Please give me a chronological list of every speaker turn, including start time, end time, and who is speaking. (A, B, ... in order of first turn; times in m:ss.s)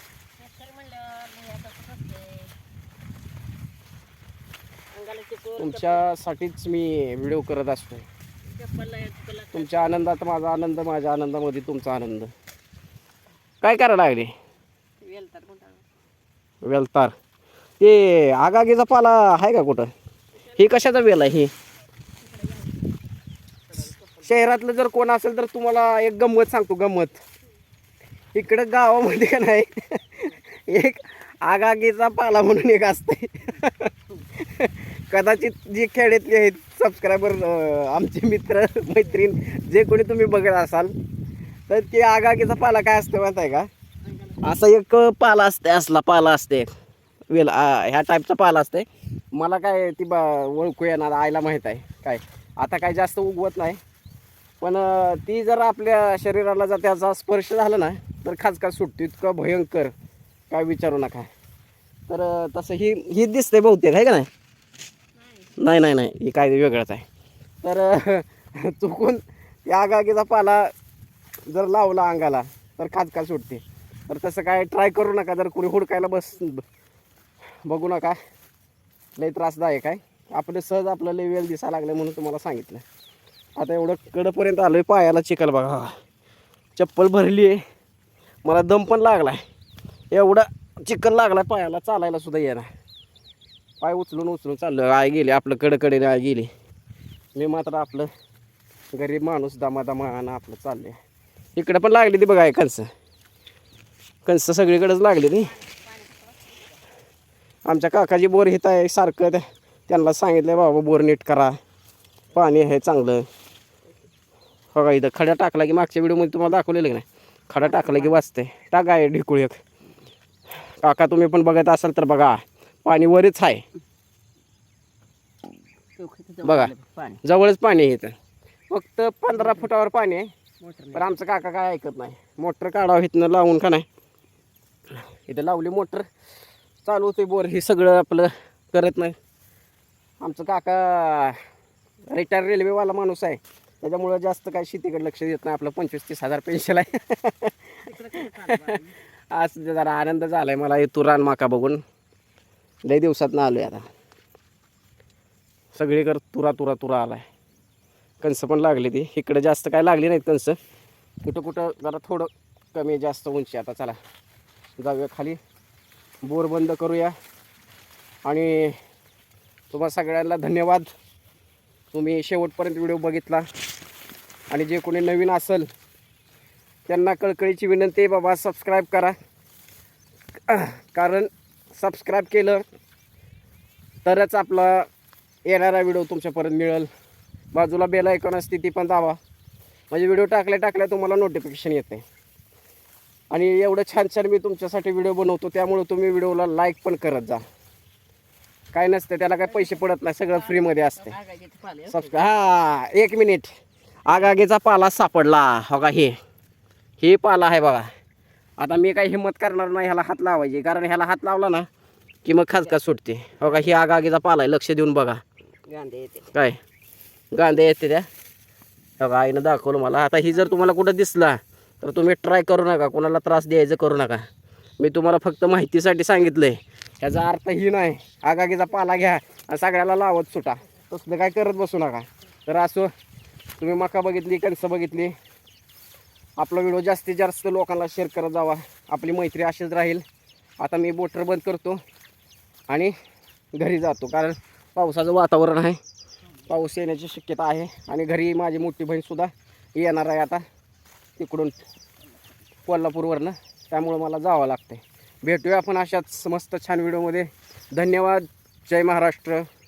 0:00.4-0:02.5 A
0:04.9-0:06.0 A
0:05.6-0:08.0 B
0:08.5-0:10.0 A
0:09.5-0:12.3 B
0:13.6-0:14.3 B
0:15.0-0:15.8 A
0:16.6-0:17.1 B
0:17.8-0:19.9 B
0:20.5-0:21.5 B
0:22.2-0:22.8 A
0:23.7-0:24.3 A
0:24.2-0:27.2 B
0:28.3-0:40.9 B
0:41.7-0:43.7 B
0:44.4-0:46.7 B
0:47.3-0:53.8 B
0:54.6-0:59.9 B
1:00.5-1:01.3 B
1:02.1-1:04.3 B
1:05.2-1:05.6 A
1:05.6-1:07.0 B
1:07.6-1:10.7 B
1:11.5-1:16.6 B
1:17.6-1:18.2 B
1:19.2-1:22.8 B
1:23.6-1:25.9 B
1:26.8-1:27.6 B
1:28.4-1:29.4 B
1:30.1-1:32.7 B
1:33.8-1:36.5 B
1:37.3-1:38.1 B
1:38.9-1:41.0 B
1:41.6-1:42.9 B
1:44.2-1:45.6 B
1:45.4-1:46.8 A
1:47.6-1:51.6 B
1:52.3-1:53.2 B
1:54.7-1:59.6 B
1:57.6-1:58.1 A
2:00.8-2:03.6 B
2:06.0-2:07.2 A
2:06.4-2:06.7 B
2:07.2-2:08.1 B
2:08.7-2:10.3 B
2:09.3-2:09.7 A
2:10.6-2:11.1 A
2:10.9-2:13.8 B
2:15.1-2:16.0 B
2:16.8-2:19.2 B
2:20.2-2:21.4 B
2:22.1-2:31.8 B
2:27.8-2:28.9 A
2:32.8-2:33.8 B
2:35.7-2:37.2 B
2:38.2-2:40.6 B
2:41.2-2:44.0 B
2:44.8-2:45.4 B
2:46.2-2:47.1 B
2:48.2-2:48.8 B
2:49.7-2:50.9 B
2:51.9-2:53.4 B
2:54.5-2:55.7 B
2:56.9-2:59.1 B
3:00.5-3:02.6 B
3:04.0-3:04.9 B
3:05.4-3:06.9 B
3:07.5-3:09.2 B
3:09.9-3:12.0 B
3:13.3-3:17.4 B
3:18.7-3:21.2 B
3:19.5-3:19.8 A
3:20.3-3:22.2 A
3:21.9-3:23.5 B
3:24.0-3:26.2 B
3:27.0-3:27.9 B
3:28.6-3:31.7 B
3:32.2-3:35.2 B
3:35.7-3:36.3 A
3:36.3-3:36.6 B
3:37.3-3:38.1 B
3:39.0-3:44.3 B
3:44.8-3:52.9 B
3:53.6-3:55.1 B
3:56.4-4:00.0 B
4:00.6-4:01.8 B
4:03.5-4:05.8 B
4:06.5-4:10.4 B
4:11.2-4:11.6 B
4:12.6-4:19.4 B